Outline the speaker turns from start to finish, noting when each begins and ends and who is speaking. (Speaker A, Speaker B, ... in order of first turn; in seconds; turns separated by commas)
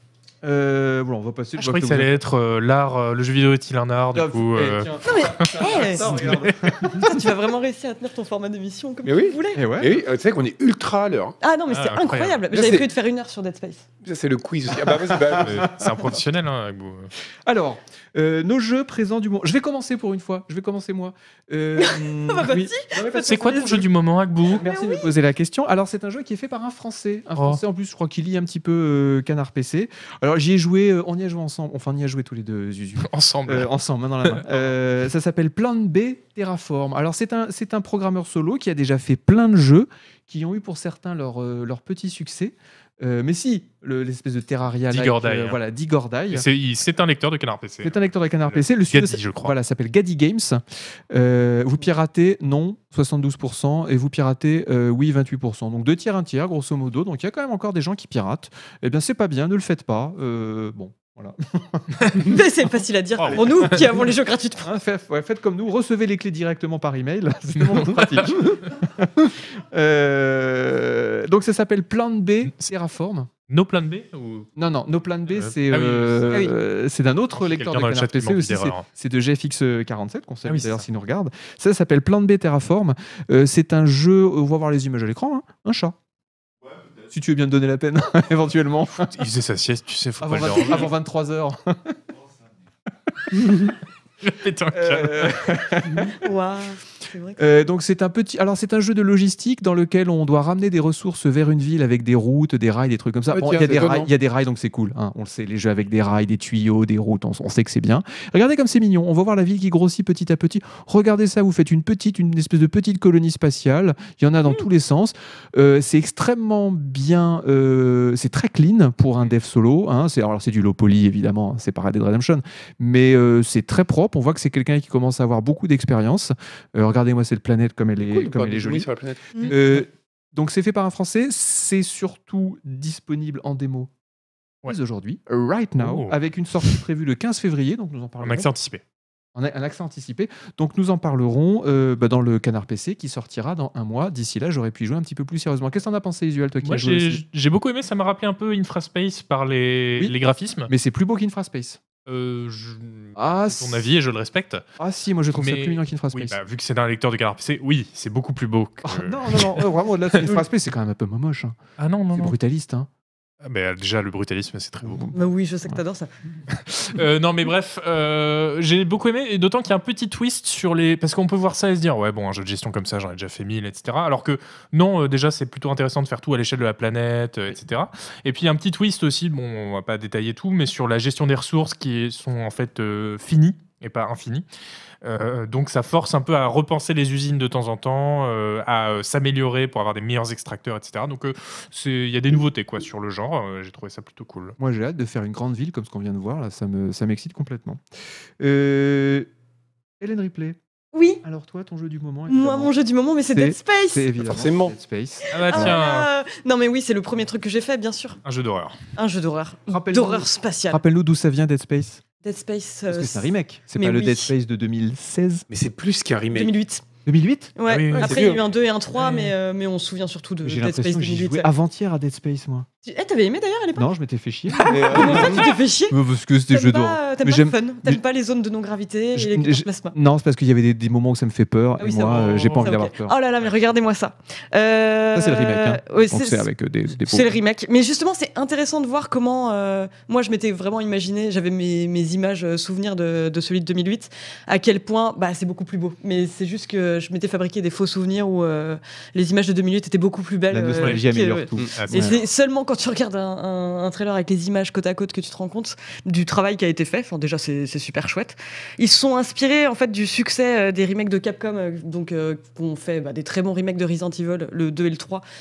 Speaker A: 0.4-2.2, Speaker B: 1.6-6.8, Speaker A: 4.1-7.3, Speaker C: 5.0-9.7, Speaker D: 9.0-11.4, Speaker A: 9.5-10.0, Speaker C: 11.4-13.8, Speaker B: 11.7-12.4, Speaker D: 12.5-12.9, Speaker D: 14.0-15.8, Speaker A: 14.8-16.1, Speaker B: 15.4-17.1, Speaker A: 17.4-23.8, Speaker C: 21.8-23.8, Speaker B: 23.1-24.6, Speaker A: 24.5-46.5, Speaker C: 24.6-25.1, Speaker B: 27.4-27.6, Speaker B: 33.0-33.7, Speaker B: 34.2-34.6, Speaker B: 44.9-45.6, Speaker B: 46.3-49.5, Speaker A: 47.8-62.3, Speaker C: 62.2-64.7, Speaker B: 63.2-63.7, Speaker A: 63.3-73.3, Speaker B: 67.5-68.7, Speaker B: 73.5-74.5, Speaker A: 74.5-86.0, Speaker B: 75.3-76.5, Speaker B: 77.4-78.8, Speaker B: 80.5-80.8, Speaker A: 87.0-89.2, Speaker B: 89.1-90.9, Speaker A: 90.2-92.0, Speaker A: 93.3-93.7, Speaker B: 94.2-95.6, Speaker A: 94.7-96.1, Speaker C: 96.1-97.4, Speaker A: 97.4-128.9, Speaker D: 103.3-104.1, Speaker D: 128.0-129.4, Speaker A: 129.4-133.9, Speaker A: 134.7-138.5, Speaker B: 135.8-136.7, Speaker B: 138.2-138.8, Speaker A: 139.3-147.2, Speaker B: 146.6-150.7, Speaker A: 150.7-151.8, Speaker B: 152.1-154.6, Speaker A: 153.2-153.9, Speaker A: 154.8-156.4, Speaker B: 155.3-160.4, Speaker A: 158.8-161.6, Speaker B: 161.8-162.3, Speaker A: 162.1-162.9, Speaker B: 163.4-165.1, Speaker C: 165.1-166.1, Speaker B: 166.5-184.4, Speaker B: 185.0-194.6, Speaker A: 194.6-197.8, Speaker A: 198.4-199.3, Speaker A: 200.0-200.6, Speaker C: 200.9-201.2, Speaker A: 201.2-202.7, Speaker C: 202.3-204.1, Speaker A: 203.3-205.8, Speaker D: 204.2-204.7, Speaker B: 205.3-206.1, Speaker C: 205.3-208.2, Speaker B: 208.2-208.7, Speaker C: 208.9-210.8, Speaker A: 209.7-212.0, Speaker C: 212.2-214.3, Speaker A: 212.9-215.4, Speaker D: 215.5-216.5, Speaker C: 216.3-216.8, Speaker A: 217.0-217.5, Speaker C: 217.6-221.5, Speaker B: 217.7-218.3, Speaker D: 217.9-218.4, Speaker B: 219.0-219.3, Speaker A: 220.4-222.7, Speaker C: 222.8-223.9, Speaker A: 223.7-228.0, Speaker C: 224.5-226.0, Speaker D: 224.6-225.5, Speaker C: 226.5-229.9, Speaker A: 229.1-233.2, Speaker C: 231.8-236.5, Speaker B: 232.1-232.7, Speaker B: 233.4-233.7, Speaker A: 235.1-237.3, Speaker C: 237.0-265.2, Speaker A: 250.5-252.2, Speaker B: 251.7-252.1